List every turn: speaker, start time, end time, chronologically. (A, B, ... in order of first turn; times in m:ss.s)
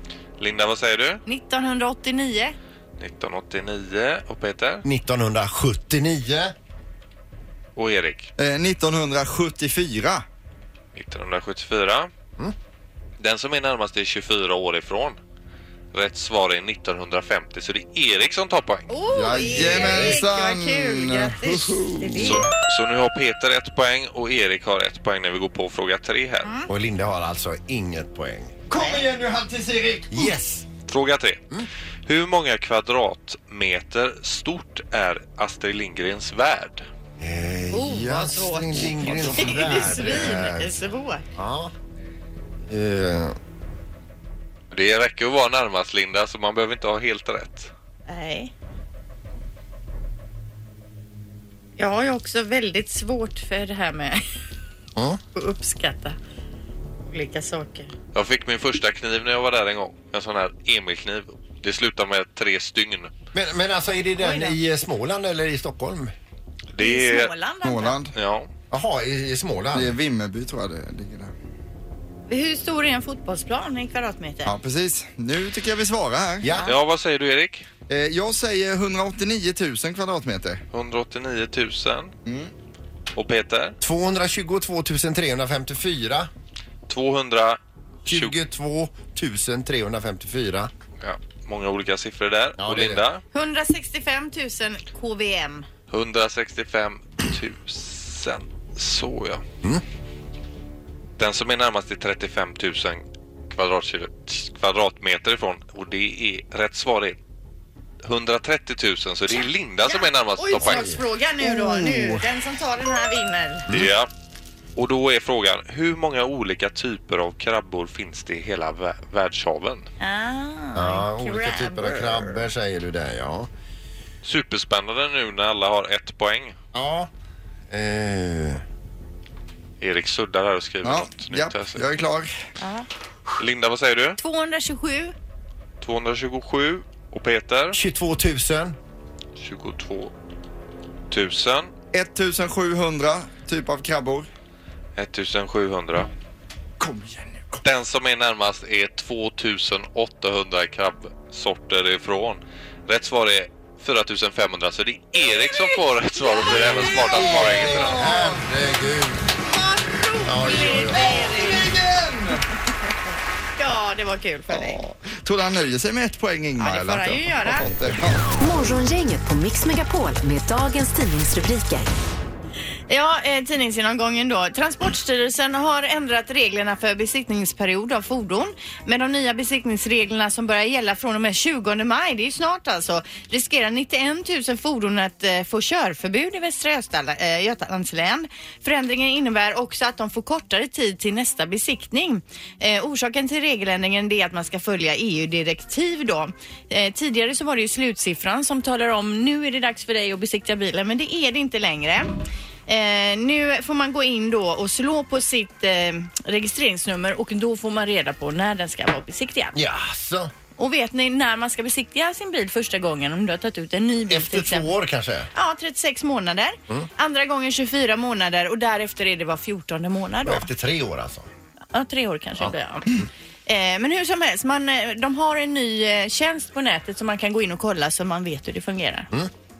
0:00.4-0:01.2 A
0:01.2-0:02.6 B
0:03.0-0:04.8 A
0:04.8-0:06.5 C
0:07.8-0:08.3 A
0:08.4-0:10.2 D
0:10.9-0:12.1 A
0:13.2-0:15.2 A
0:15.9-0:18.9 A
0:18.9-0:22.4 B
0:19.1-0:22.4 D
0:19.5-0:20.2 C
0:22.2-0:26.5 A
0:26.4-0:26.7 B
0:26.7-0:28.6 C
0:28.7-0:30.3 D
0:28.7-0:29.0 B
0:30.1-0:30.6 C
0:30.9-0:31.4 A
0:32.0-0:36.8 A
0:37.2-0:40.7 C
0:37.7-0:41.2 B
0:41.4-0:41.7 C
0:42.7-0:43.4 C
0:44.7-0:47.7 A
0:48.1-0:48.5 B
0:51.8-0:54.2 B
0:55.3-0:56.2 B
0:57.1-0:57.9 B
0:58.1-1:03.1 A
1:03.3-1:06.1 C
1:04.2-1:04.6 B
1:06.7-1:07.3 A
1:06.8-1:08.0 B
1:07.6-1:08.1 D
1:08.1-1:08.5 A
1:08.7-1:09.9 C
1:09.7-1:11.3 D
1:12.3-1:14.5 B
1:14.4-1:16.5 D
1:16.4-1:16.7 C
1:16.6-1:17.6 A
1:17.9-1:20.6 D
1:20.7-1:22.1 A
1:22.2-1:22.5 D
1:23.1-1:23.8 A
1:23.8-1:26.3 C
1:26.9-1:28.4 A
1:28.0-1:30.7 C
1:31.0-1:33.2 A
1:32.6-1:33.0 C
1:33.3-1:35.6 B
1:35.9-1:39.4 A
1:41.2-1:47.2 A
1:48.0-1:50.9 A
1:49.8-1:53.6 B
1:50.5-1:51.0 C
1:53.7-1:54.1 A
1:54.8-1:59.8 A
2:00.0-2:02.3 B
2:00.7-2:03.5 C
2:04.2-2:06.6 A
2:06.7-2:07.1 C
2:07.7-2:08.6 C
2:09.8-2:11.8 A
2:10.8-2:12.3 D
2:12.6-2:12.8 B
2:13.4-2:14.2 A
2:14.2-2:15.1 B
2:15.8-2:17.8 A
2:17.7-2:18.8 C
2:19.4-2:20.1 A
2:21.1-2:21.7 A
2:21.9-2:24.3 D
2:25.0-2:26.1 A
2:26.8-2:27.6 D
2:27.6-2:38.0 A
2:36.4-2:39.2 C
2:36.7-2:38.4 D
2:39.5-2:41.6 B
2:40.2-2:41.3 C
2:40.6-2:42.4 D
2:43.6-2:44.8 B
2:44.5-2:48.2 D
2:46.6-2:47.7 B
2:48.4-2:51.9 E
2:52.9-3:22.1 B
3:22.7-3:29.5 B
3:29.5-3:30.3 C
3:30.6-3:34.7 B
3:34.1-3:35.3 C
3:35.3-3:40.5 B
3:40.2-3:41.3 C
3:41.7-3:42.9 B
3:42.4-3:43.1 C
3:43.5-3:49.1 B